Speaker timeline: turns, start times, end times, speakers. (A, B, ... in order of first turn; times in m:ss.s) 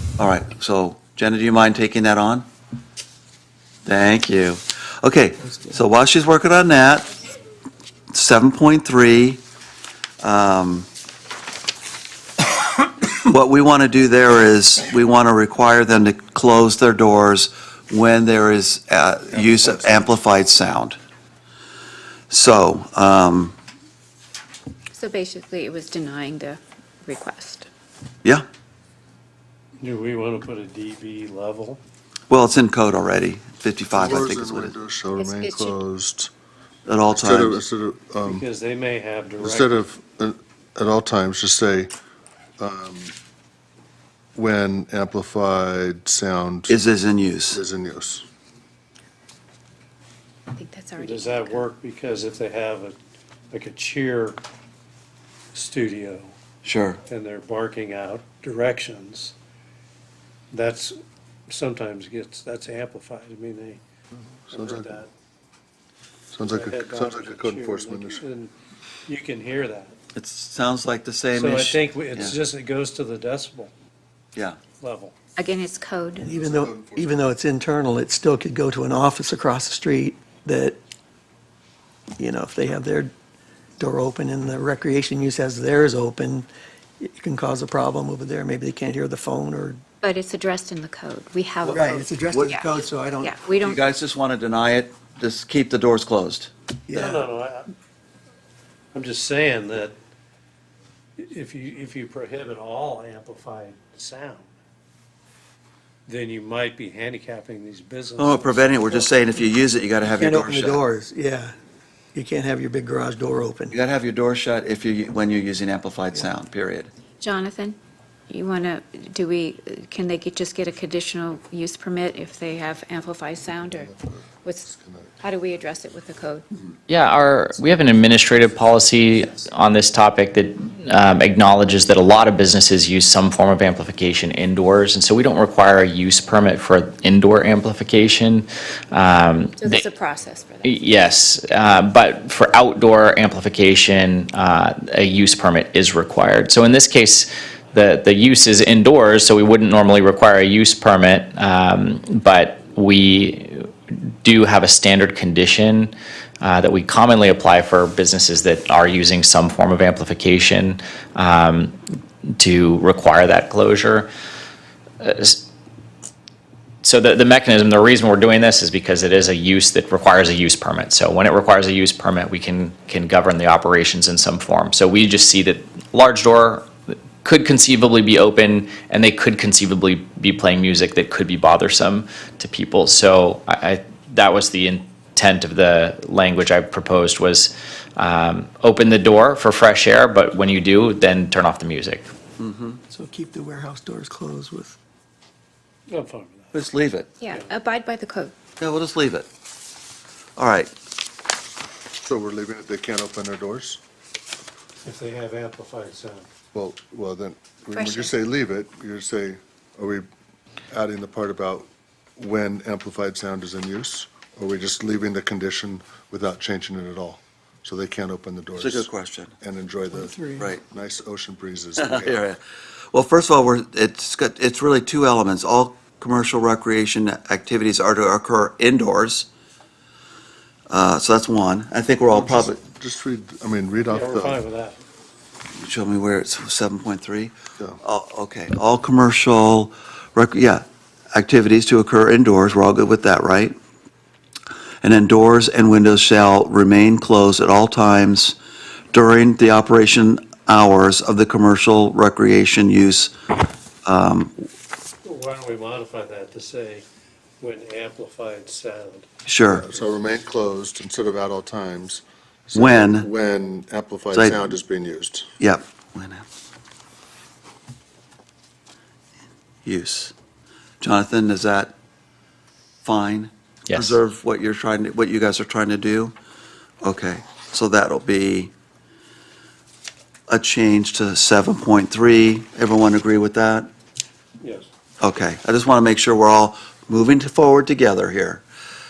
0:00.2-0:02.5 A
0:03.8-0:07.1 A
0:08.1-0:09.4 A
0:10.2-0:10.9 A
0:13.1-0:21.0 A
0:19.3-0:20.0 B
0:22.3-0:23.6 A
0:24.9-0:27.7 C
0:29.8-0:31.8 D
0:32.3-0:34.8 A
0:33.9-0:36.3 B
0:35.2-0:35.8 C
0:36.9-0:37.6 A
0:37.1-0:38.4 B
0:38.2-0:39.8 D
0:39.4-0:41.9 B
0:42.6-0:43.2 B
0:44.4-0:46.8 B
0:46.7-0:47.6 A
0:47.5-0:48.2 B
0:50.5-0:51.7 C
0:51.0-0:53.0 D
0:53.5-0:54.4 D
0:55.5-0:56.3 D
0:56.6-0:57.0 A
0:57.0-0:59.4 D
1:00.5-1:01.0 D
1:01.5-1:03.8 D
1:04.5-1:05.0 B
1:04.5-1:05.1 D
1:06.3-1:08.2 B
1:06.5-1:08.5 D
1:09.1-1:10.0 D
1:10.2-1:12.4 A
1:11.3-1:13.7 D
1:14.8-1:15.2 D
1:15.4-1:16.2 C
1:16.2-1:20.8 E
1:16.2-1:17.2 B
1:22.2-1:23.1 E
1:23.8-1:29.8 E
1:30.0-1:32.7 C
1:31.7-1:33.4 E
1:33.2-1:33.8 C
1:33.6-1:37.1 A
1:36.9-1:37.2 E
1:36.9-1:37.7 D
1:38.9-1:40.0 D
1:41.2-1:44.5 D
1:46.1-1:49.1 D
1:48.2-1:50.8 A
1:50.1-1:51.6 E
1:52.1-1:53.8 E
1:53.7-1:56.9 A
1:57.2-1:57.8 C
1:58.3-2:03.9 C
2:03.7-2:05.1 B
2:04.4-2:06.4 C
2:06.9-2:19.8 F
2:19.6-2:20.8 C
2:20.6-2:33.7 F
2:34.2-2:41.8 F
2:42.4-2:44.1 F
2:45.0-2:45.4 F
2:46.8-3:12.1 F
3:12.4-3:12.8 A
3:12.9-3:14.8 E
3:15.9-3:16.6 D
3:16.5-3:17.2 A
3:17.2-3:18.4 C
3:17.3-3:17.5 D
3:18.6-3:19.3 A
3:20.4-3:20.7 A
3:22.0-3:23.8 B
3:24.8-3:26.3 D
3:26.5-3:30.1 B
3:27.7-3:28.1 C
3:30.7-3:38.9 B
3:38.6-3:39.3 A
3:39.4-3:42.3 B
3:39.9-3:40.5 E
3:41.8-3:42.4 A
3:42.9-3:49.3 A
3:50.7-3:52.6 A
3:52.1-3:54.4 B
3:53.9-3:54.8 D
3:55.6-4:03.6 A
4:04.8-4:08.4 A
4:08.9-4:13.1 A
4:13.9-4:14.4 A
4:15.0-4:16.9 D
4:17.4-4:19.1 D
4:19.3-4:19.7 A
4:19.5-4:25.3 B
4:22.5-4:23.1 A
4:24.1-4:24.5 A
4:25.4-4:26.2 A
4:29.6-4:30.1 A
4:30.8-4:31.7 A
4:32.8-4:36.1 A
4:33.7-4:34.0 F
4:36.8-4:38.5 A
4:40.3-4:43.7 A
4:44.4-4:44.7 D
4:45.0-4:48.4 A